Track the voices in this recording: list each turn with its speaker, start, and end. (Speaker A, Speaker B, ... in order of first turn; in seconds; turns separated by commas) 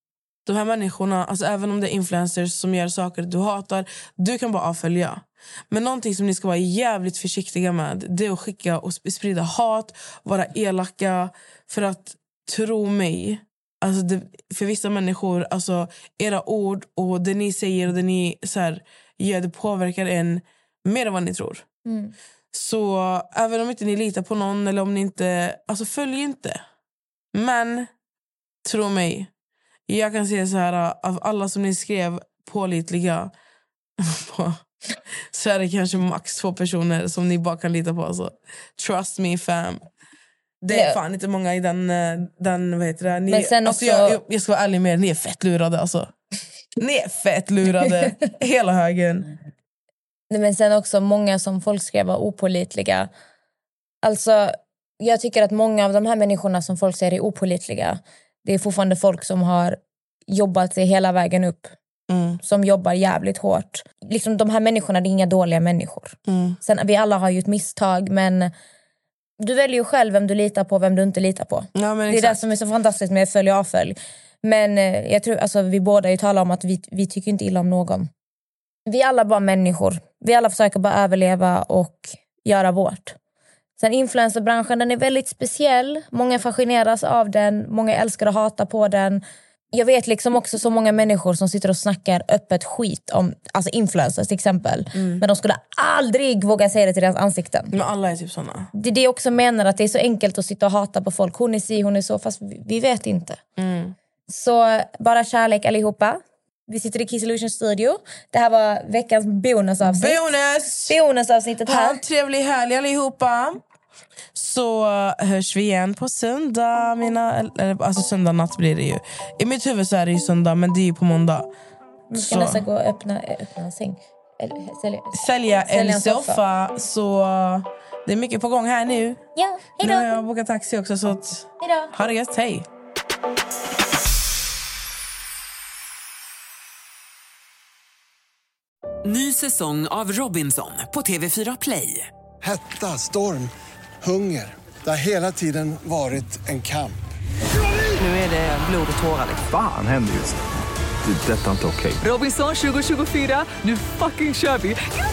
Speaker A: 0.5-21.6, Speaker B: 21.9-22.1, Speaker A: 22.5-26.6, Speaker A: 27.3-27.9, Speaker A: 28.6-29.3, Speaker A: 29.9-33.3, Speaker A: 34.0-34.6, Speaker A: 35.3-39.8, Speaker A: 40.6-46.1, Speaker B: 40.7-41.0, Speaker B: 43.3-44.2, Speaker A: 46.8-49.3, Speaker B: 50.3-53.1, Speaker B: 54.0-61.8, Speaker A: 62.1-62.4, Speaker B: 62.4-68.5, Speaker A: 66.3-66.6, Speaker B: 69.4-78.1, Speaker A: 71.8-72.4, Speaker B: 78.9-83.2, Speaker B: 83.8-97.7, Speaker A: 95.0-95.2, Speaker A: 97.7-98.7, Speaker B: 98.8-103.4, Speaker A: 103.6-104.0, Speaker B: 104.3-110.2, Speaker A: 109.8-111.0, Speaker B: 110.9-112.0, Speaker A: 111.7-113.6, Speaker A: 114.3-121.5, Speaker B: 122.1-126.4, Speaker A: 122.2-122.6, Speaker A: 125.1-129.2, Speaker B: 129.4-130.2, Speaker A: 129.8-132.7, Speaker B: 131.6-131.9, Speaker C: 139.1-142.1, Speaker D: 142.4-147.0, Speaker C: 148.0-149.4, Speaker E: 149.4-150.4, Speaker E: 151.0-152.0, Speaker C: 152.0-154.8